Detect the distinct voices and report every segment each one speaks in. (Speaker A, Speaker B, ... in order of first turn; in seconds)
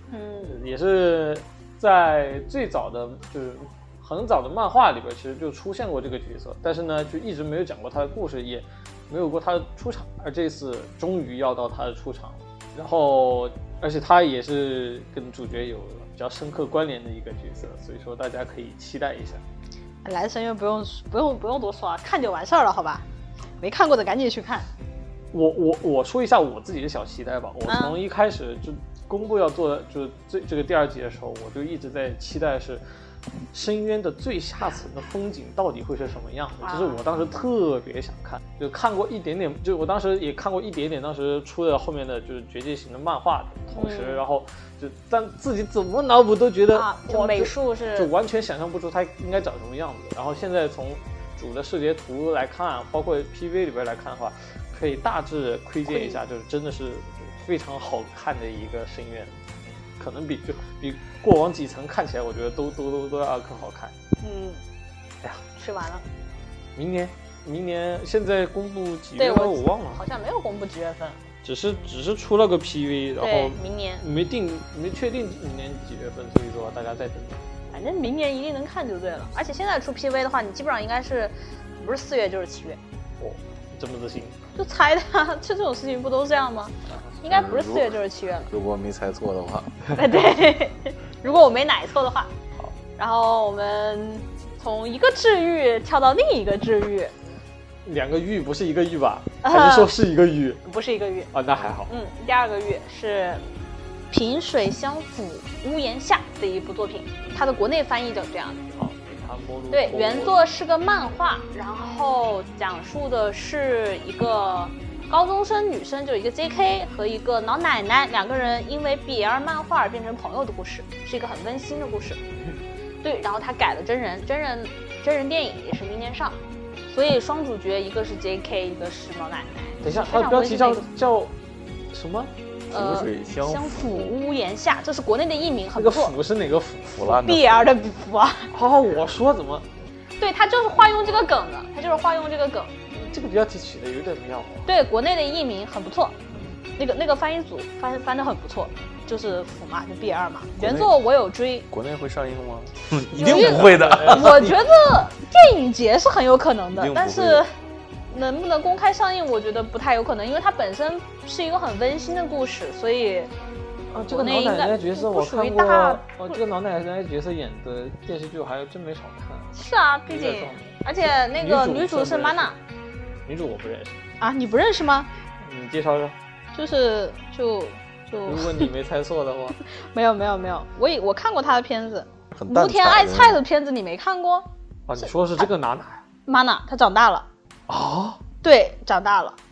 Speaker A: 0.1-0.6, 20.0-23.0, 23.6-24.7, 27.7-28.0, 36.6-37.0, 43.8-44.2, 46.7-48.1, 55.9-56.2, 64.2-64.6, 65.5-66.0, 69.2-71.2, 73.2-74.1, 77.7-82.8, 84.5-88.5, 89.9-92.3, 93.0-97.1, 99.4-99.9, 100.6-101.3, 101.9-103.4, 104.1-108.7, 109.7-122.2, 123.0-130.8, 132.7-136.2, 137.1-138.5, 140.2-142.7, 144.7-146.2, 146.8-151.7, 153.1-157.5, 158.1-163.3, 164.1-166.4, 169.5-172.6, 174.2-175.1, 176.5-178.7, 179.8-184.5, 185.0-185.4, 186.3-187.3, 188.4-189.4
Speaker B: 0.5-19.4, 25.3-32.8, 33.5-63.9, 66.8-70.0, 71.4-77.5, 83.2-84.4, 97.8-100.6, 101.3-101.9, 108.8-110.4, 129.8-131.3, 131.9-132.3, 133.3-134.1, 135.8-137.1, 138.5-139.7, 142.9-144.7, 153.2-154.5, 163.9-169.6, 170.1-172.6, 173.2-174.0, 175.4-176.2, 178.2-179.6, 184.9-186.0, 187.7-188.2
Speaker C: 87.2-88.0, 88.5-89.8, 132.7-133.6, 136.9-137.6, 150.6-150.9, 151.7-154.6, 156.7-157.4, 182.3-183.4